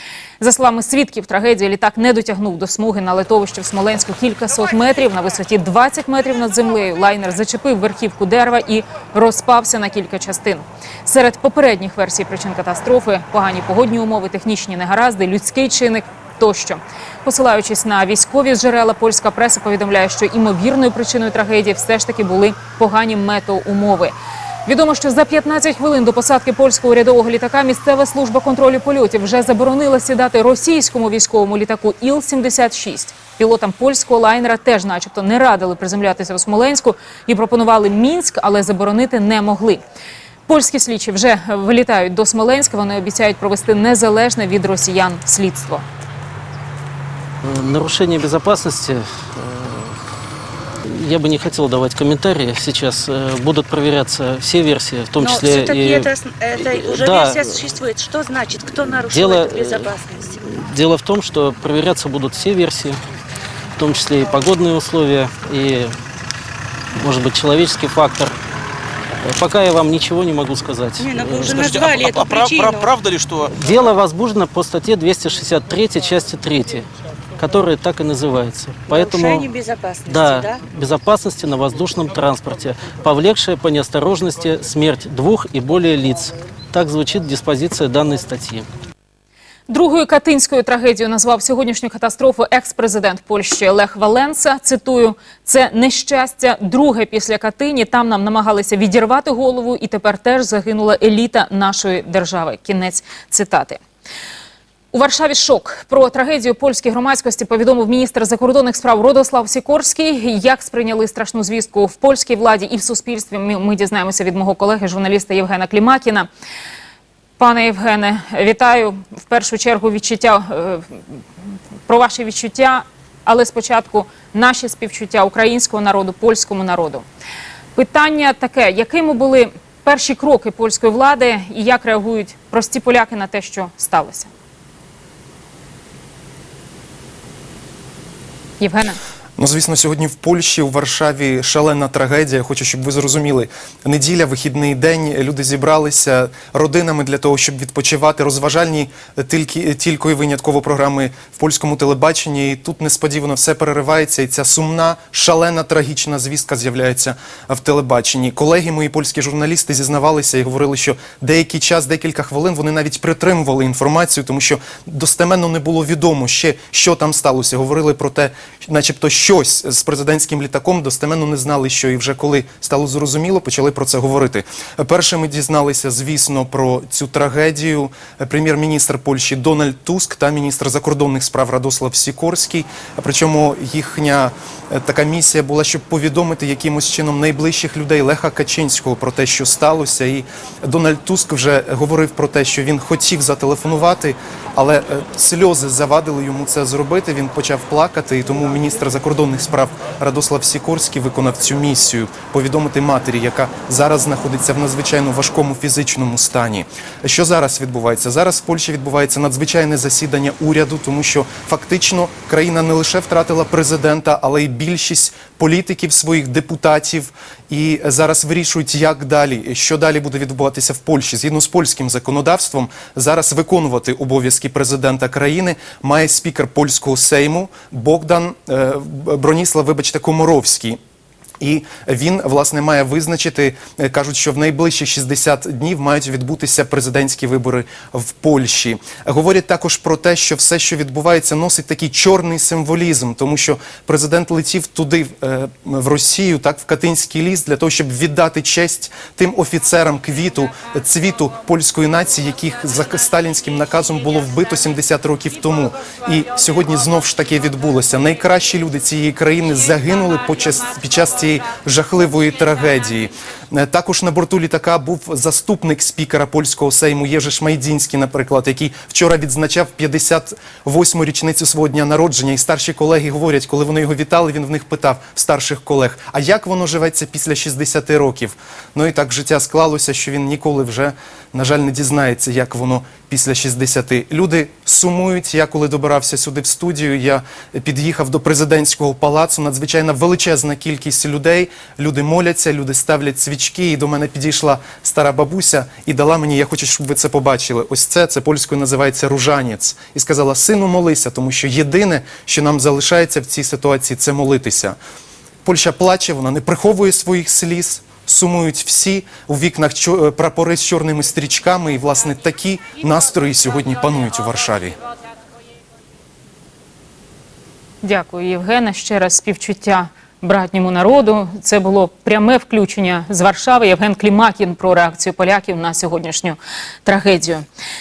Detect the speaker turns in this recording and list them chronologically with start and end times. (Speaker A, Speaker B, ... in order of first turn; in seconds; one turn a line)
Speaker A: 0.4-24.1
Speaker A: 24.6-39.8
Speaker A: 40.5-45.8
Speaker B: 47.4-50.0
Speaker B: 50.8-57.8
Speaker C: 55.2-60.4
Speaker B: 59.1-63.0
Speaker B: 63.8-65.9
Speaker B: 67.0-68.3
Speaker B: 69.2-71.6
Speaker C: 71.0-72.9
Speaker D: 71.5-73.5
Speaker B: 73.5-79.5
Speaker C: 78.9-80.6
Speaker B: 80.0-88.7
Speaker A: 89.7-103.8
Speaker A: 104.9-116.3
Speaker A: 117.4-121.2
Speaker A: 121.9-127.0
Speaker A: 127.7-134.3
Speaker A: 138.6-139.0
Speaker E: 139.4-230.8
Speaker E: 231.4-304.8
Speaker E: 305.4-314.8
Speaker A: 317.8-327.4